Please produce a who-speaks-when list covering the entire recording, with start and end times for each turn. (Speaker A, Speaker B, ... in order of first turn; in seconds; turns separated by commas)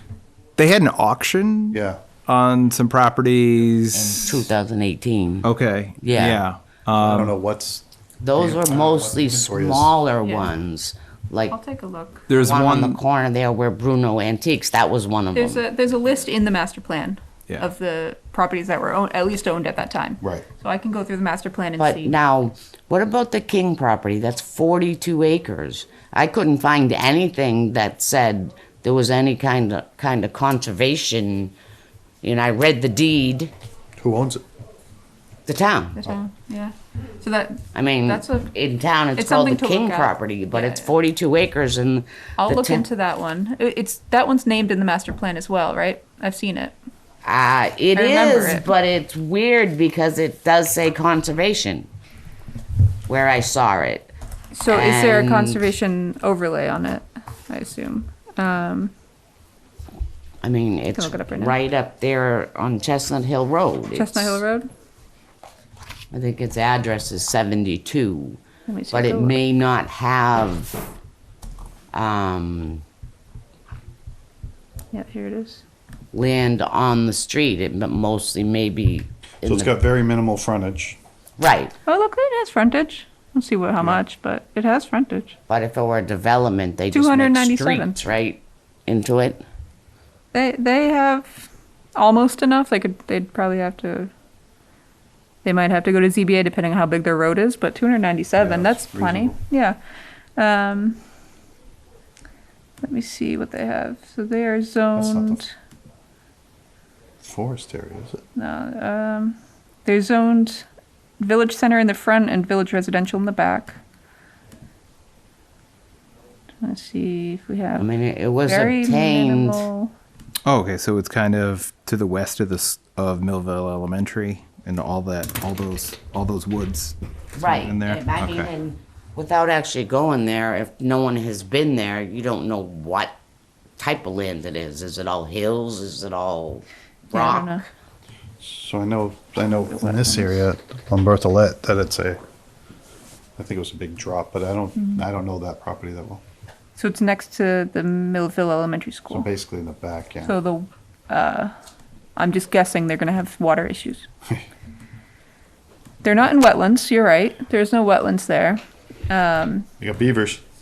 Speaker A: 0.6-4.4, Speaker B: 1.7-2.0, Speaker C: 3.9-5.5, Speaker A: 5.4-7.3, Speaker C: 6.0-6.4, Speaker B: 7.0-10.0, Speaker C: 8.2-11.6, Speaker D: 10.2-10.5, Speaker D: 11.5-12.3, Speaker A: 12.3-13.0, Speaker C: 12.4-15.6, Speaker D: 15.3-22.1, Speaker C: 21.8-31.5, Speaker C: 32.2-33.5, Speaker B: 34.0-34.4, Speaker C: 35.5-36.1, Speaker D: 36.0-38.5, Speaker C: 37.7-42.9, Speaker D: 39.2-40.9, Speaker D: 42.4-46.8, Speaker C: 47.2-51.9, Speaker D: 47.9-48.7, Speaker C: 53.1-54.1, Speaker D: 54.5-58.9, Speaker C: 54.7-55.6, Speaker C: 60.4-64.4, Speaker D: 60.9-61.6, Speaker D: 64.0-64.7, Speaker C: 66.1-68.4, Speaker D: 68.7-69.4, Speaker C: 68.9-70.9, Speaker C: 71.9-72.8, Speaker D: 74.9-75.6, Speaker C: 76.1-79.8, Speaker B: 79.5-81.0, Speaker C: 81.4-81.8, Speaker D: 81.9-85.3, Speaker C: 85.5-89.4, Speaker D: 86.9-88.0, Speaker D: 90.3-94.1, Speaker D: 95.4-99.8, Speaker B: 98.4-99.4, Speaker D: 100.4-101.0, Speaker D: 102.8-105.5, Speaker B: 105.0-105.4, Speaker B: 107.2-108.2, Speaker D: 108.4-110.7, Speaker D: 111.2-113.8, Speaker D: 116.6-117.9, Speaker C: 117.8-119.7, Speaker D: 118.5-119.9, Speaker A: 120.5-128.5, Speaker C: 127.4-133.2, Speaker C: 133.8-137.6, Speaker D: 137.1-137.7, Speaker B: 138.4-142.2, Speaker D: 139.7-140.4, Speaker B: 143.4-146.2, Speaker D: 146.8-149.3, Speaker B: 149.1-150.4, Speaker D: 150.2-151.5, Speaker D: 152.2-154.1, Speaker D: 156.0-159.7, Speaker B: 159.8-160.4